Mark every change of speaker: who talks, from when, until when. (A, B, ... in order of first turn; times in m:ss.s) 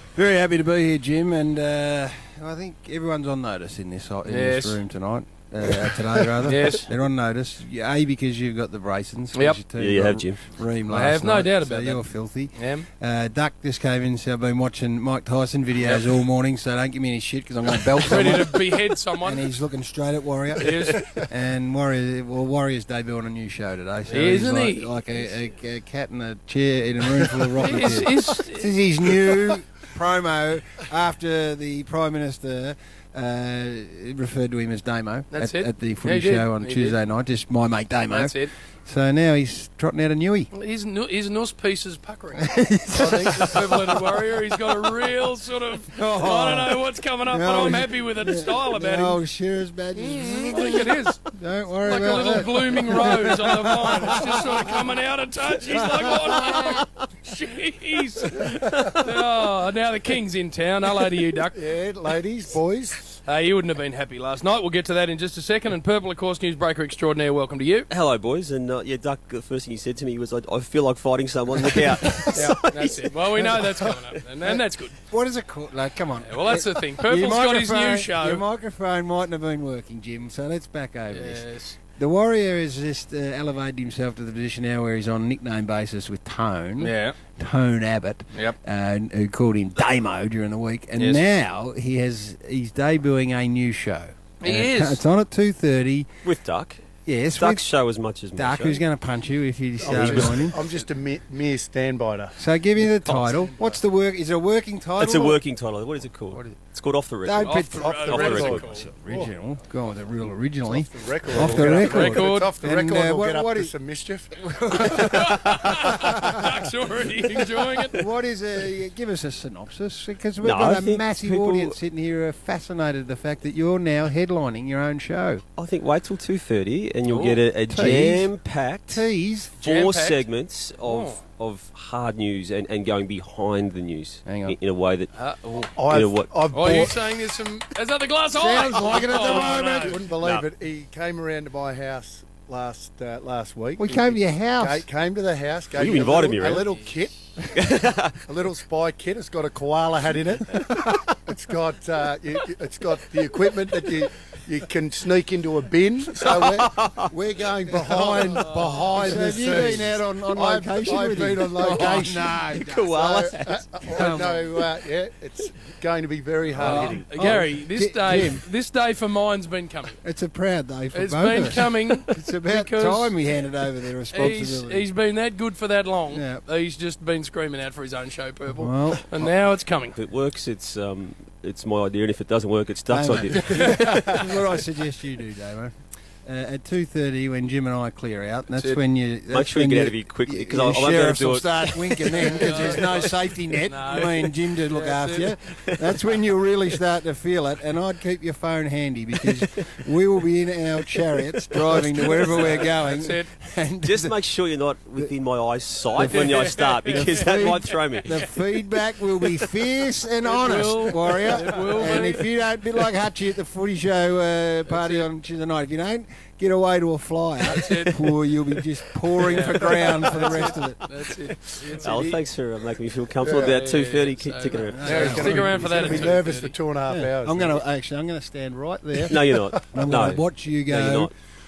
0:00.2-0:40.5 A
0:04.3-0:04.8 B
0:06.4-0:06.9 B
0:09.3-0:09.6 B
0:09.8-0:10.4 C
0:10.9-0:12.9 B
0:18.0-0:19.6 B
0:20.6-0:21.1 B
0:24.1-0:25.0 B
0:27.6-0:28.7 B
0:35.3-0:37.0 B
0:38.1-0:38.5 B
0:40.5-0:49.2 B
0:42.4-0:44.3 A
0:45.9-0:54.9 A
0:50.5-0:51.3 B
0:51.8-1:01.6 B
0:55.8-0:56.8 A
1:01.6-1:03.2 D
1:03.2-1:07.9 B
1:07.9-1:13.9 C
1:11.7-1:12.3 A
1:12.3-1:15.0 B
1:14.5-1:36.1 A
1:16.3-1:18.4 B
1:21.1-1:21.8 B
1:26.8-1:27.2 B
1:31.0-1:31.3 B
1:34.4-1:35.0 B
1:36.2-1:36.8 C
1:37.0-1:37.7 A
1:37.3-1:38.8 C
1:38.3-1:40.6 A
1:39.8-1:42.4 D
1:39.8-1:40.2 C
1:40.0-1:40.3 B
1:42.4-1:45.4 A
1:43.5-1:43.8 D
1:45.0-1:48.7 C
1:47.2-1:53.7 A
1:47.4-1:48.9 B
1:47.7-1:49.3 D
1:50.6-1:56.5 D
1:51.4-1:52.5 B
1:54.3-1:55.4 A
1:55.1-1:58.0 B
1:56.0-1:56.4 A
1:57.9-2:05.4 A
2:00.4-2:01.8 C
2:05.6-2:09.1 C
2:07.1-2:07.4 B
2:07.7-2:08.3 A
2:08.9-2:09.6 A
2:09.6-2:10.2 B
2:09.6-2:15.1 C
2:10.8-2:11.2 B
2:14.2-2:14.6 A
2:15.2-2:15.7 B
2:15.8-2:17.1 D
2:15.8-2:16.9 C
2:16.5-2:20.0 B
2:18.4-2:20.0 A
2:18.9-2:27.5 D
2:20.2-2:20.5 C
2:23.8-2:24.8 A
2:25.7-2:26.8 C
2:27.5-2:28.2 C
2:28.3-2:47.3 D
2:36.2-2:37.1 C
2:37.7-2:42.9 A
2:38.4-2:39.7 B
2:42.5-2:44.5 C
2:43.9-2:44.4 A
2:46.5-2:47.4 C
2:46.6-2:50.0 B
2:46.6-2:48.5 A
2:50.0-2:54.9 A
2:50.9-2:53.5 B
2:54.1-3:00.0 B
2:56.1-2:56.4 A
2:58.5-2:59.1 A
2:59.9-3:04.2 C
3:02.9-3:24.2 A
3:03.5-3:03.8 B
3:08.5-3:08.8 B
3:09.3-3:12.5 C
3:12.2-3:15.4 B
3:15.5-3:16.2 C
3:21.5-3:22.7 C
3:22.0-3:23.3 B
3:23.8-3:28.3 C
3:25.9-3:40.9 A
3:26.0-3:28.2 B
3:30.2-3:32.3 B
3:34.7-3:35.1 B
3:37.5-3:38.1 B
3:39.2-3:42.2 B
3:41.7-3:45.5 C
3:43.2-3:43.7 D
3:43.3-3:46.5 B
3:44.7-3:46.2 A
3:44.8-3:47.6 D
3:46.9-3:51.1 A
3:49.1-3:51.1 C
3:49.6-3:49.8 D